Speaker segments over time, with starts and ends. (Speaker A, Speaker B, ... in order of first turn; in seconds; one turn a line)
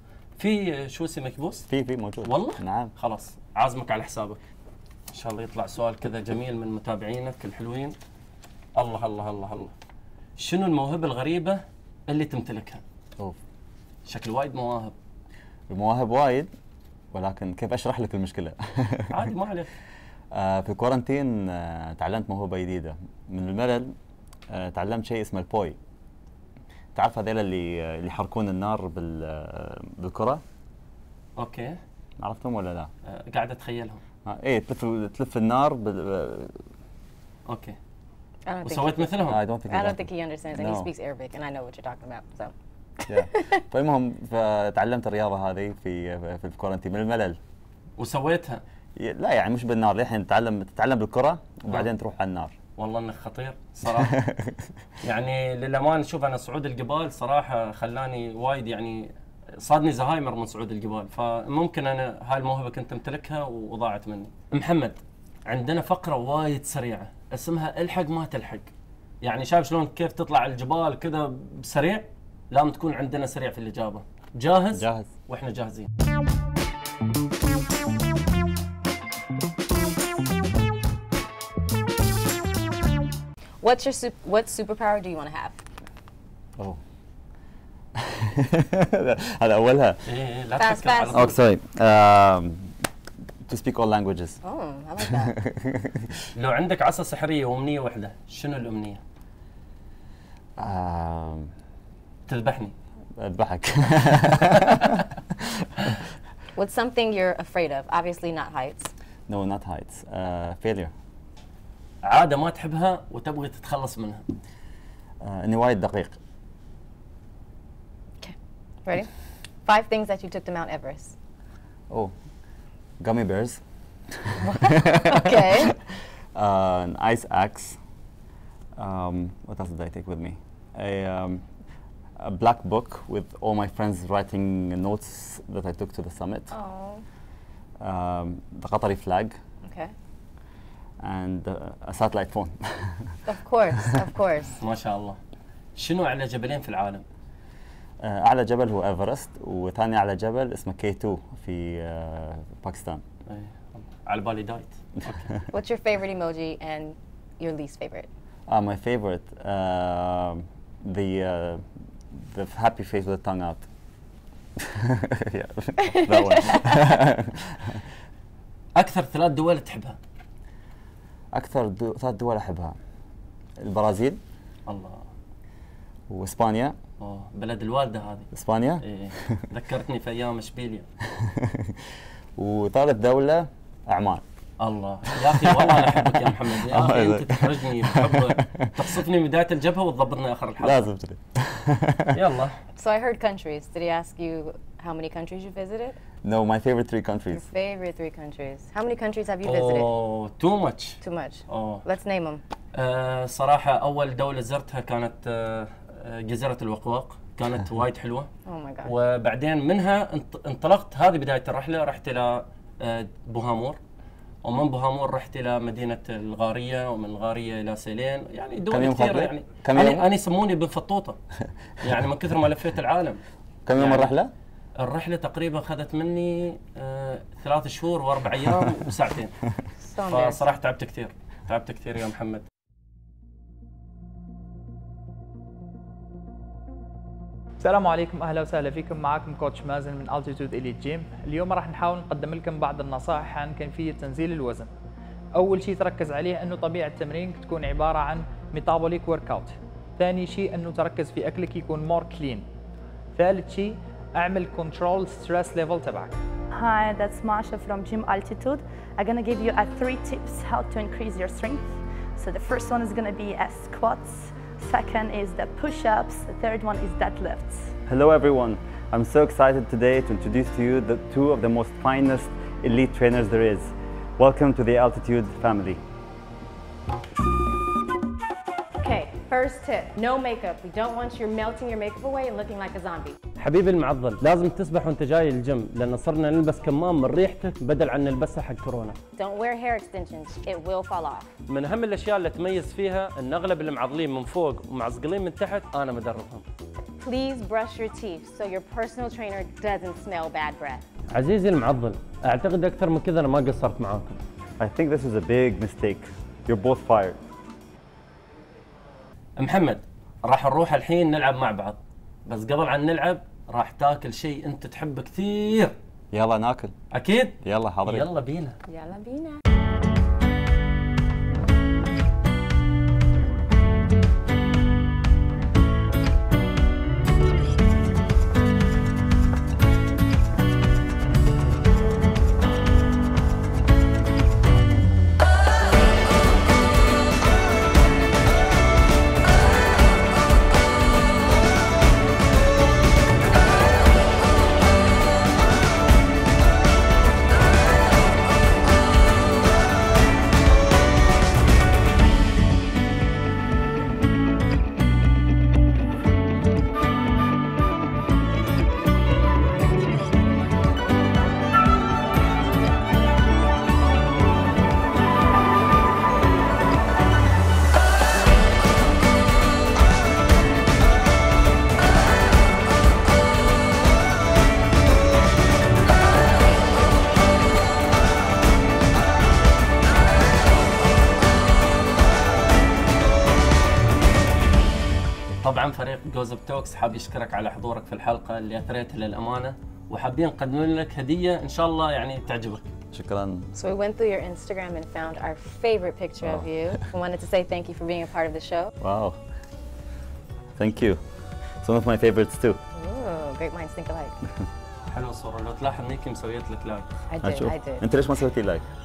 Speaker A: 0.4-1.7
Speaker B: 1.7-2.9
Speaker A: 2.2-4.4
Speaker A: 5.1-8.0
Speaker A: 8.8-9.7
Speaker A: 10.4-12.8
Speaker A: 14.1-14.9
Speaker B: 15.7-16.5
Speaker B: 17.1-19.2
Speaker A: 19.1-19.7
Speaker B: 20.3-23.9
Speaker B: 24.5-25.8
Speaker B: 26.9-30.4
Speaker A: 31.4-31.8
Speaker B: 32.2-32.9
Speaker A: 33.1-34.0
Speaker B: 34.2-36.6
Speaker A: 37.5-37.8
Speaker C: 38.5-42.5
Speaker A: 38.6-39.4
Speaker B: 39.2-40.9
Speaker C: 43.1-43.6
Speaker B: 43.1-47.4
Speaker A: 48.0-48.6
Speaker B: 49.0-52.5
Speaker A: 52.8-54.2
Speaker B: 54.0-54.6
Speaker A: 55.0-68.7
Speaker A: 69.2-75.9
Speaker B: 74.7-75.1
Speaker C: 83.6-85.6
Speaker B: 88.0-90.0
Speaker A: 90.1-91.4
Speaker C: 90.6-91.2
Speaker B: 91.1-92.8
Speaker B: 93.5-94.4
Speaker C: 94.4-95.4
Speaker B: 95.3-96.2
Speaker A: 96.3-99.0
Speaker B: 100.6-101.5
Speaker A: 102.3-102.7
Speaker B: 103.2-105.9
Speaker C: 106.5-108.9
Speaker B: 109.3-110.9
Speaker A: 112.0-114.2
Speaker B: 115.2-116.2
Speaker C: 119.7-121.2
Speaker B: 123.0-123.6
Speaker B: 124.1-125.5
Speaker C: 124.4-125.8
Speaker B: 126.3-127.8
Speaker B: 128.8-131.4
Speaker B: 132.2-136.5
Speaker C: 136.5-137.0
Speaker B: 137.8-139.4
Speaker C: 139.6-139.9
Speaker B: 141.0-143.2
Speaker C: 143.3-144.6
Speaker A: 144.6-145.2
Speaker A: 145.8-147.1
Speaker B: 148.0-153.0
Speaker A: 153.3-155.3
Speaker C: 155.5-158.1
Speaker B: 158.5-163.7
Speaker B: 164.6-167.8
Speaker C: 165.8-166.8
Speaker A: 168.8-170.0
Speaker B: 171.3-172.8
Speaker B: 173.6-174.2
Speaker A: 174.7-175.1
Speaker B: 176.1-176.8
Speaker A: 177.0-180.9
Speaker B: 178.3-179.4
Speaker B: 181.1-184.2
Speaker A: 184.6-190.9
Speaker B: 185.3-188.9
Speaker B: 190.6-192.2
Speaker A: 192.1-192.6
Speaker C: 192.8-196.0
Speaker B: 196.2-197.4
Speaker C: 197.3-200.0
Speaker A: 199.4-201.8
Speaker C: 201.0-202.4
Speaker A: 202.7-208.3
Speaker C: 208.5-208.9
Speaker A: 208.8-213.8
Speaker A: 214.4-221.2
Speaker B: 218.7-220.1
Speaker A: 221.8-223.2
Speaker B: 223.7-224.3
Speaker A: 223.8-224.2
Speaker A: 224.8-229.4
Speaker C: 229.8-230.5
Speaker A: 230.1-232.5
Speaker D: 237.6-244.7
Speaker D: 245.4-252.5
Speaker D: 253.2-256.1
Speaker E: 256.5-267.7
Speaker B: 267.9-275.8
Speaker C: 278.8-283.2
Speaker A: 283.4-289.0
Speaker C: 289.2-291.3
Speaker A: 291.5-296.5
Speaker C: 297.0-300.8
Speaker A: 301.1-304.2
Speaker B: 304.6-307.2
Speaker A: 309.4-315.7
Speaker B: 316.1-316.7
Speaker A: 316.9-318.6
Speaker B: 317.4-318.1
Speaker C: 318.7-319.4
Speaker A: 385.4-392.7
Speaker B: 392.9-393.5
Speaker C: 393.5-398.7
Speaker B: 396.2-396.5
Speaker B: 398.8-399.2
Speaker B: 400.6-401.0
Speaker B: 401.6-402.6
Speaker C: 402.8-404.2
Speaker A: 404.9-406.9
Speaker C: 407.1-407.8
Speaker B: 407.2-408.6